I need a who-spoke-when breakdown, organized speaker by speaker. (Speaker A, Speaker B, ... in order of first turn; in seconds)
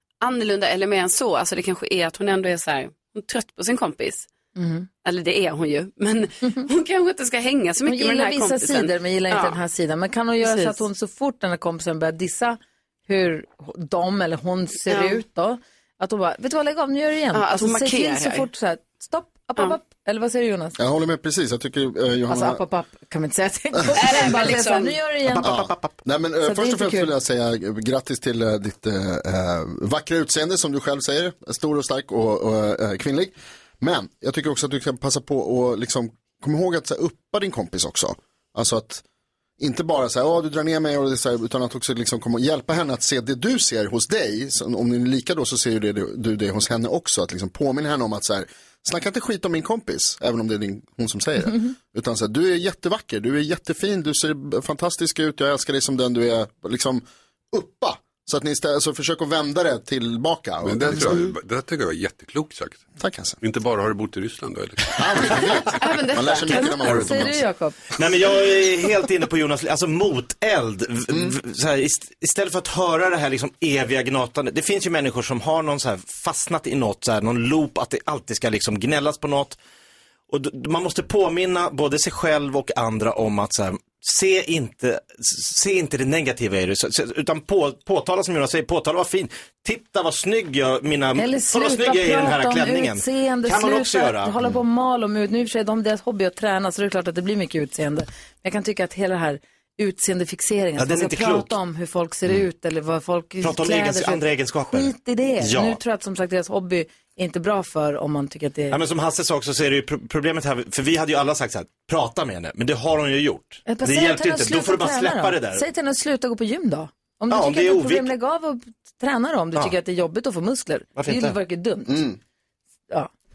Speaker A: 0.2-4.3, 5.0-9.6, 10.4-10.8, 14.9-15.2, 17.3-18.5, 23.9-25.0, 65.7-66.8
Speaker B: 4.5-4.9, 7.8-20.8, 22.3-25.6, 26.4-27.1, 66.5-67.8, 91.2-108.8, 113.7-122.0
Speaker C: 20.8-22.6, 25.4-39.0, 39.6-61.3, 63.0-63.4, 64.9-67.4, 121.9-122.2
Speaker D: 25.3-25.9, 67.9-79.6, 80.3-94.4, 100.8-101.5, 103.4-105.8, 108.7-115.6, 117.3-118.1, 121.0-121.4
Speaker E: 60.6-62.9, 63.4-65.4